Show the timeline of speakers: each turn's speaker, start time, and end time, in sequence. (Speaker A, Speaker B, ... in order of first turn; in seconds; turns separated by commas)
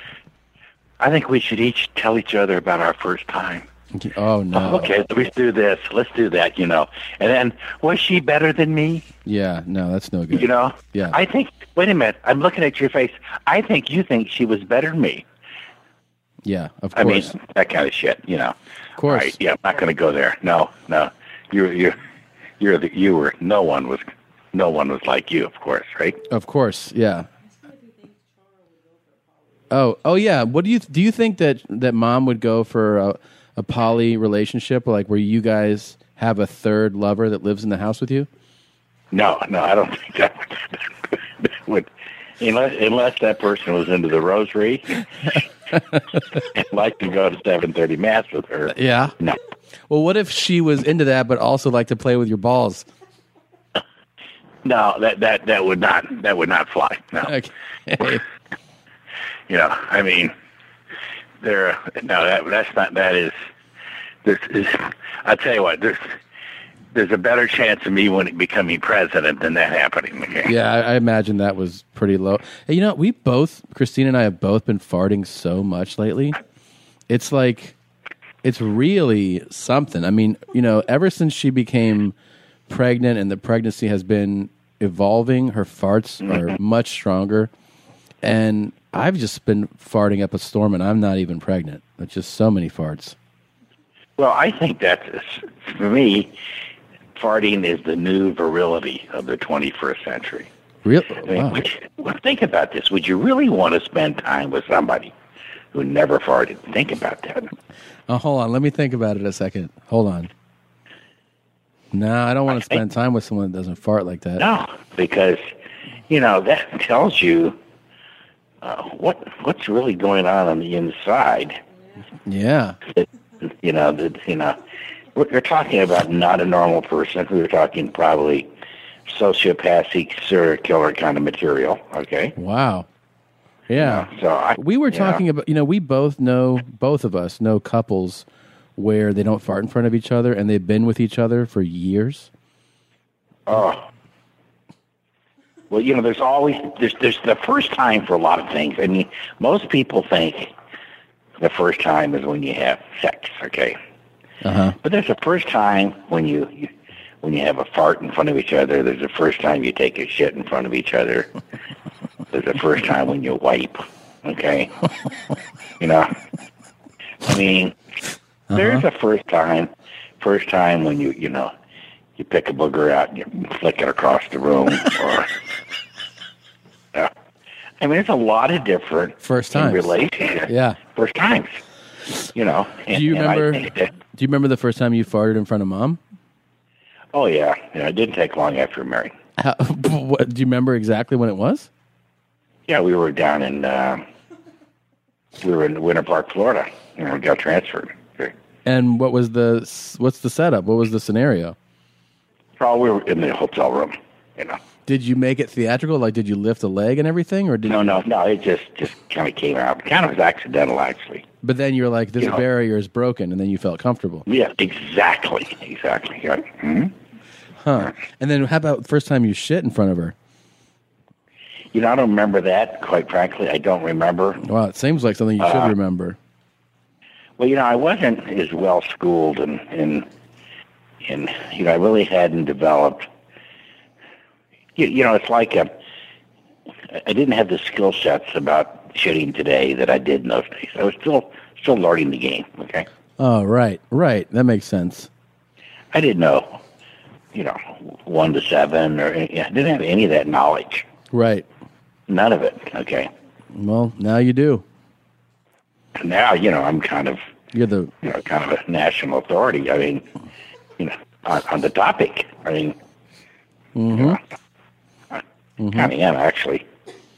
Speaker A: 1.0-3.7, Speaker B: 3.9-4.9, Speaker A: 4.5-9.1, Speaker B: 9.2-11.2, Speaker A: 10.3-15.2, Speaker B: 16.4-17.4, Speaker A: 17.0-22.0, Speaker B: 19.0-19.4, Speaker A: 22.6-26.2, Speaker B: 26.3-27.3, Speaker B: 29.7-38.3, Speaker A: 39.1-40.5, Speaker A: 42.4-44.9, Speaker B: 45.7-46.2, Speaker A: 46.5-49.4, Speaker B: 48.7-49.1, Speaker B: 49.9-52.9, Speaker A: 54.6-57.3, Speaker B: 57.2-58.2, Speaker A: 59.5-60.3, Speaker A: 61.4-63.4, Speaker A: 64.2-66.1, Speaker A: 66.9-70.5, Speaker B: 70.5-76.4, Speaker B: 77.1-77.8, Speaker B: 78.4-82.2, Speaker B: 82.7-87.5, Speaker A: 86.2-86.5, Speaker B: 88.2-93.2, Speaker A: 94.2-96.3, Speaker A: 97.2-100.5, Speaker B: 100.8-101.7, Speaker A: 101.3-105.1, Speaker A: 105.7-107.5, Speaker B: 108.1-110.3, Speaker B: 111.9-114.5, Speaker A: 112.5-112.8, Speaker A: 114.4-115.5, Speaker A: 116.1-117.6, Speaker A: 118.6-121.6, Speaker B: 122.3-122.8, Speaker A: 123.6-124.6, Speaker A: 125.2-128.5, Speaker A: 129.1-132.3, Speaker B: 132.4-132.9, Speaker B: 133.7-138.2, Speaker A: 133.8-135.2, Speaker B: 138.8-142.3, Speaker A: 143.5-143.8, Speaker A: 145.7-150.5, Speaker A: 151.4-153.8, Speaker B: 154.4-154.8, Speaker A: 154.8-156.7, Speaker A: 157.2-161.3, Speaker A: 162.3-164.7, Speaker A: 165.8-166.1, Speaker A: 167.3-167.8, Speaker B: 168.5-168.8, Speaker A: 168.5-171.5, Speaker A: 172.2-175.3, Speaker A: 177.8-181.6, Speaker B: 179.2-180.8, Speaker A: 182.3-183.9, Speaker B: 182.9-186.0, Speaker A: 187.1-189.1, Speaker B: 189.4-191.7, Speaker A: 192.7-194.0, Speaker A: 195.4-198.3, Speaker B: 198.7-201.6, Speaker A: 202.6-204.6, Speaker B: 204.9-208.0, Speaker A: 207.7-211.3, Speaker B: 211.4-214.2, Speaker A: 214.3-216.9, Speaker B: 217.6-220.2, Speaker A: 221.7-224.4, Speaker B: 224.4-226.2, Speaker A: 225.4-225.7, Speaker A: 227.4-230.1, Speaker A: 231.1-233.1, Speaker A: 234.8-235.7, Speaker A: 236.9-242.9, Speaker B: 243.2-245.1, Speaker A: 245.9-246.6, Speaker A: 247.3-250.9, Speaker B: 251.1-251.5, Speaker A: 252.1-253.1, Speaker B: 253.5-254.6, Speaker A: 256.0-257.2, Speaker B: 257.5-257.9, Speaker A: 258.0-260.1, Speaker A: 260.8-262.8, Speaker B: 263.8-264.2, Speaker A: 263.9-264.2, Speaker B: 265.6-265.9, Speaker A: 265.7-266.6